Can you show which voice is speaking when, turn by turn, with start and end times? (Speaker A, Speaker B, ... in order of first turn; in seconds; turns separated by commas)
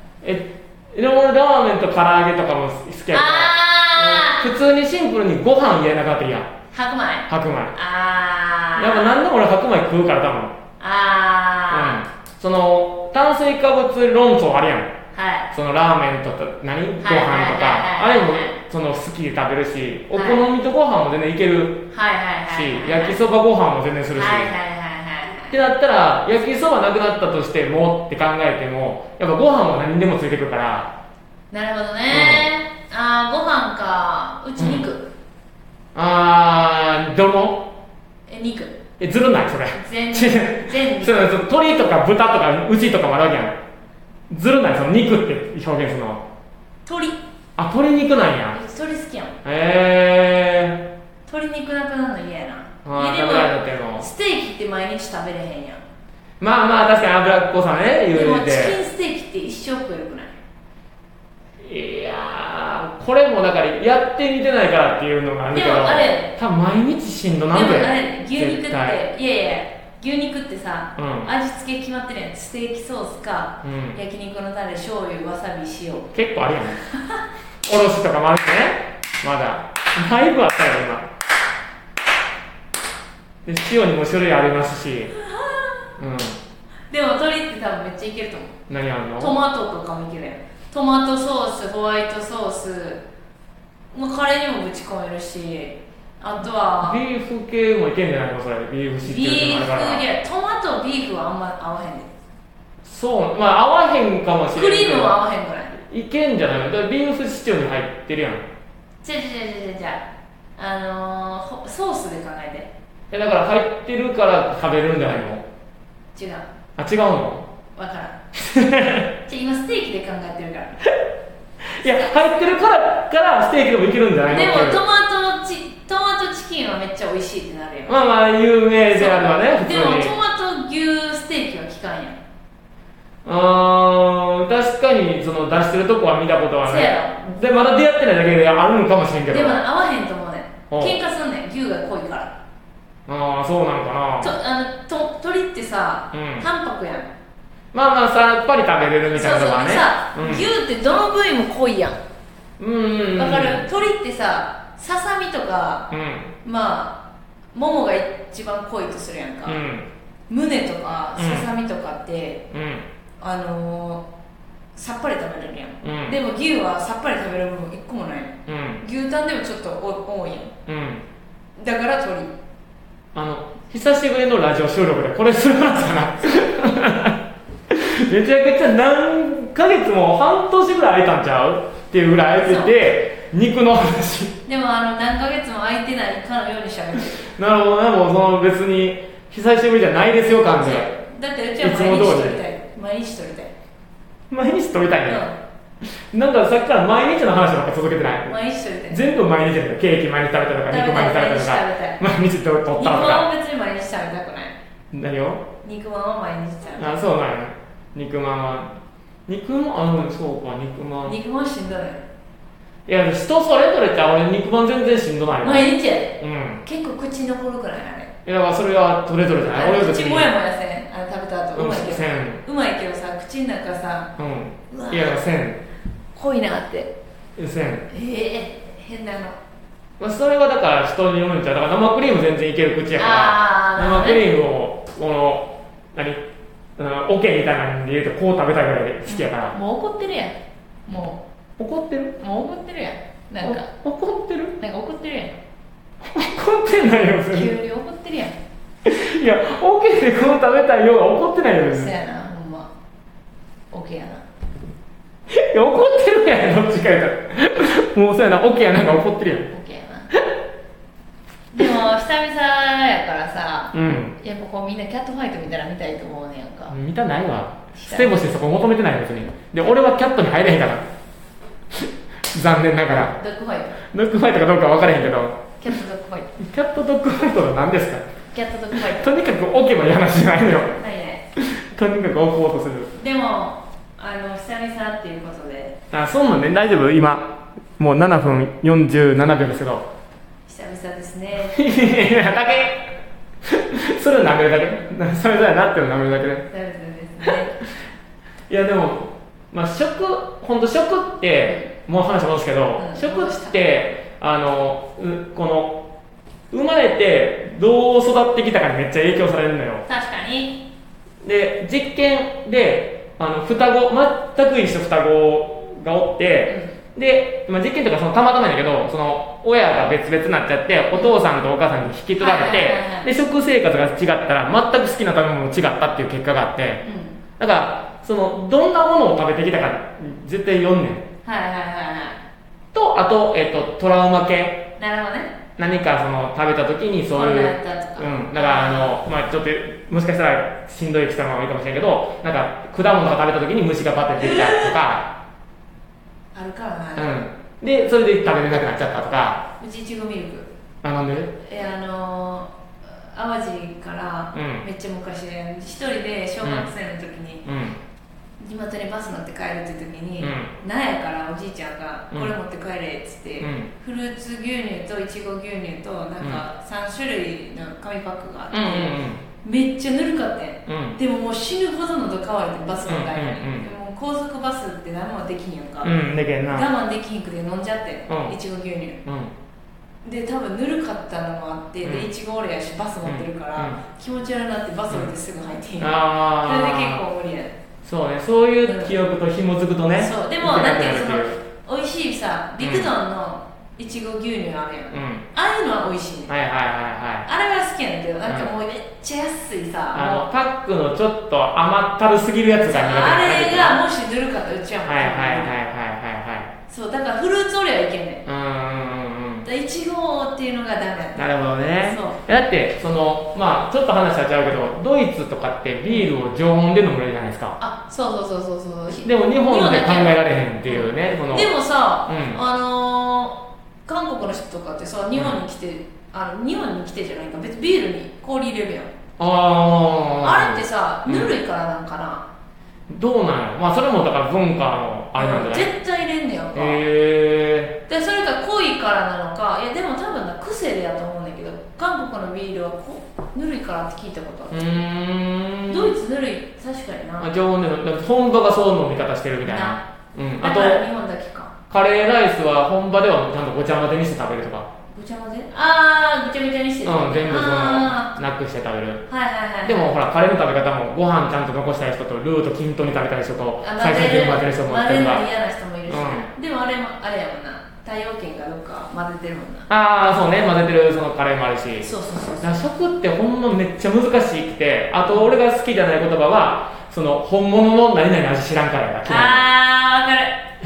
Speaker A: 0.2-6.5, Speaker B: 3.1-4.4, Speaker B: 6.7-9.2, Speaker A: 7.3-7.8, Speaker A: 8.8-10.5, Speaker B: 10.8-12.0, Speaker A: 11.7-14.9, Speaker B: 15.1-15.5, Speaker A: 15.5-21.9, Speaker B: 17.0-18.6, Speaker B: 20.1-20.5, Speaker B: 21.9-23.2, Speaker A: 22.5-24.5, Speaker B: 24.1-25.6, Speaker A: 25.5-30.9, Speaker B: 31.5-35.1, Speaker A: 32.1-32.5, Speaker A: 34.6-34.9, Speaker A: 35.9-37.7, Speaker B: 38.3-38.8, Speaker A: 39.0-43.5, Speaker B: 39.7-41.3, Speaker A: 44.3-46.2, Speaker B: 46.9-47.2, Speaker A: 47.5-48.6, Speaker B: 48.5-49.4, Speaker A: 49.4-50.9, Speaker B: 51.2-55.8, Speaker A: 52.8-54.1, Speaker A: 56.4-58.8, Speaker B: 58.1-60.3, Speaker A: 61.6-69.0, Speaker B: 65.5-66.3, Speaker B: 67.5-76.1, Speaker A: 71.0-71.3, Speaker A: 73.6-74.0, Speaker A: 76.1-76.8, Speaker A: 77.7-81.1, Speaker A: 83.5-85.1, Speaker B: 85.1-85.8, Speaker A: 86.0-86.4, Speaker B: 86.9-88.5, Speaker A: 88.7-89.4, Speaker B: 89.2-93.0, Speaker B: 93.9-97.0, Speaker A: 96.8-100.0, Speaker B: 99.0-102.1, Speaker A: 102.8-105.2, Speaker B: 104.5-105.8, Speaker A: 105.8-108.4, Speaker B: 109.0-112.7, Speaker A: 113.1-115.4, Speaker B: 116.1-116.4, Speaker A: 116.8-117.5, Speaker B: 117.7-118.2, Speaker A: 118.3-119.1, Speaker B: 119.2-120.9, Speaker A: 121.8-124.8, Speaker B: 124.3-128.1, Speaker A: 127.9-130.1, Speaker B: 128.9-132.2, Speaker A: 133.2-139.6, Speaker B: 136.6-137.1, Speaker B: 139.3-142.3, Speaker A: 140.7-141.0, Speaker A: 143.1-144.4, Speaker B: 144.2-147.1, Speaker A: 146.1-146.5, Speaker A: 147.7-150.5, Speaker B: 149.1-152.0, Speaker A: 152.6-153.6, Speaker B: 153.1-155.9, Speaker A: 155.9-156.3, Speaker B: 156.4-157.0, Speaker B: 157.5-159.6, Speaker A: 159.4-159.9, Speaker B: 160.3-162.4, Speaker A: 161.2-161.4, Speaker A: 162.5-162.8, Speaker B: 163.2-164.0, Speaker B: 164.7-170.5, Speaker A: 165.8-166.2, Speaker A: 168.5-168.8, Speaker A: 170.7-171.0, Speaker B: 171.6-172.3, Speaker A: 173.1-177.2, Speaker A: 177.7-184.4, Speaker B: 182.4-182.7, Speaker B: 184.4-187.3, Speaker A: 187.3-190.9, Speaker B: 190.6-193.5, Speaker A: 191.6-192.4, Speaker A: 194.3-195.2, Speaker B: 195.1-195.3, Speaker A: 195.8-198.3, Speaker B: 198.3-199.0, Speaker A: 198.9-203.3, Speaker B: 200.7-202.0, Speaker B: 202.7-204.6, Speaker A: 204.9-205.5, Speaker B: 205.6-207.0, Speaker A: 206.8-211.2, Speaker B: 211.0-212.0, Speaker A: 212.8-216.6, Speaker B: 215.4-218.1, Speaker A: 218.2-220.3, Speaker B: 219.5-224.1, Speaker A: 221.5-222.4, Speaker A: 224.2-225.6, Speaker B: 224.7-225.2, Speaker B: 226.1-226.9, Speaker A: 227.4-227.9, Speaker B: 227.9-229.4, Speaker A: 230.0-236.2, Speaker B: 232.9-234.2, Speaker A: 236.8-239.6, Speaker B: 239.1-241.2, Speaker A: 241.6-242.2, Speaker B: 242.2-243.7, Speaker A: 243.4-244.6, Speaker B: 244.6-245.4, Speaker A: 246.1-247.5, Speaker B: 247.3-248.3, Speaker A: 248.8-251.9, Speaker B: 251.7-252.7, Speaker B: 253.7-254.2, Speaker A: 255.3-259.5, Speaker B: 259.5-260.1, Speaker B: 261.5-266.7, Speaker A: 263.7-264.2, Speaker A: 266.7-270.9, Speaker B: 267.7-268.5, Speaker A: 272.3-273.2, Speaker B: 273.2-273.8, Speaker A: 273.9-275.4, Speaker B: 275.6-276.3, Speaker A: 276.4-278.0, Speaker B: 278.3-279.2, Speaker A: 278.7-280.8, Speaker B: 280.7-281.2, Speaker A: 281.4-282.9, Speaker B: 282.9-285.8, Speaker A: 285.9-289.9, Speaker B: 290.5-291.6, Speaker A: 291.5-292.9, Speaker A: 293.4-296.4, Speaker B: 296.5-297.6, Speaker A: 298.5-305.9, Speaker B: 302.8-303.5, Speaker A: 306.5-309.9, Speaker B: 309.9-310.6, Speaker A: 311.2-326.8, Speaker B: 316.5-316.8, Speaker B: 320.9-321.2, Speaker B: 322.2-323.1, Speaker B: 326.8-327.2, Speaker A: 327.4-331.1, Speaker B: 331.2-332.2, Speaker A: 332.7-334.7, Speaker B: 334.8-335.4, Speaker A: 335.6-345.1, Speaker B: 337.1-339.0, Speaker B: 344.2-344.7, Speaker B: 346.3-347.2, Speaker A: 346.9-349.4, Speaker B: 349.6-350.5, Speaker A: 350.8-351.3, Speaker B: 351.4-357.4, Speaker A: 354.3-354.7, Speaker A: 356.4-356.7, Speaker A: 357.4-357.8, Speaker B: 358.4-375.9, Speaker A: 360.2-360.5, Speaker A: 363.4-363.7, Speaker A: 368.5-369.2, Speaker A: 370.7-371.0, Speaker A: 372.8-373.7, Speaker A: 375.8-376.7, Speaker B: 376.5-379.0, Speaker A: 378.1-378.3, Speaker A: 379.0-379.3, Speaker B: 380.0-387.5, Speaker A: 381.8-382.1, Speaker A: 383.0-383.8, Speaker A: 385.8-387.0, Speaker A: 387.8-391.4, Speaker B: 388.6-388.9, Speaker B: 390.0-396.3, Speaker A: 392.6-392.9, Speaker A: 394.9-395.2, Speaker A: 396.3-397.3, Speaker B: 397.2-400.3, Speaker A: 398.2-398.5, Speaker A: 399.9-403.8, Speaker B: 402.7-405.6, Speaker A: 404.8-406.5, Speaker B: 406.7-408.2, Speaker A: 408.2-409.5, Speaker B: 409.4-412.2, Speaker A: 411.1-417.6, Speaker B: 417.6-428.9, Speaker A: 418.9-421.5, Speaker A: 422.1-422.4, Speaker A: 429.2-431.4, Speaker B: 430.2-432.2, Speaker A: 432.9-435.7, Speaker B: 435.1-436.8, Speaker A: 436.5-437.8, Speaker B: 437.9-444.7, Speaker A: 444.5-445.9, Speaker B: 445.7-447.3, Speaker A: 447.2-450.8, Speaker B: 449.4-449.8, Speaker B: 450.4-451.5, Speaker A: 451.7-454.7, Speaker B: 454.9-458.1, Speaker A: 456.8-459.1, Speaker B: 459.1-459.9, Speaker A: 459.6-465.2, Speaker B: 463.6-469.7, Speaker A: 465.9-466.3, Speaker A: 469.7-479.4, Speaker B: 471.8-472.5, Speaker B: 479.0-480.5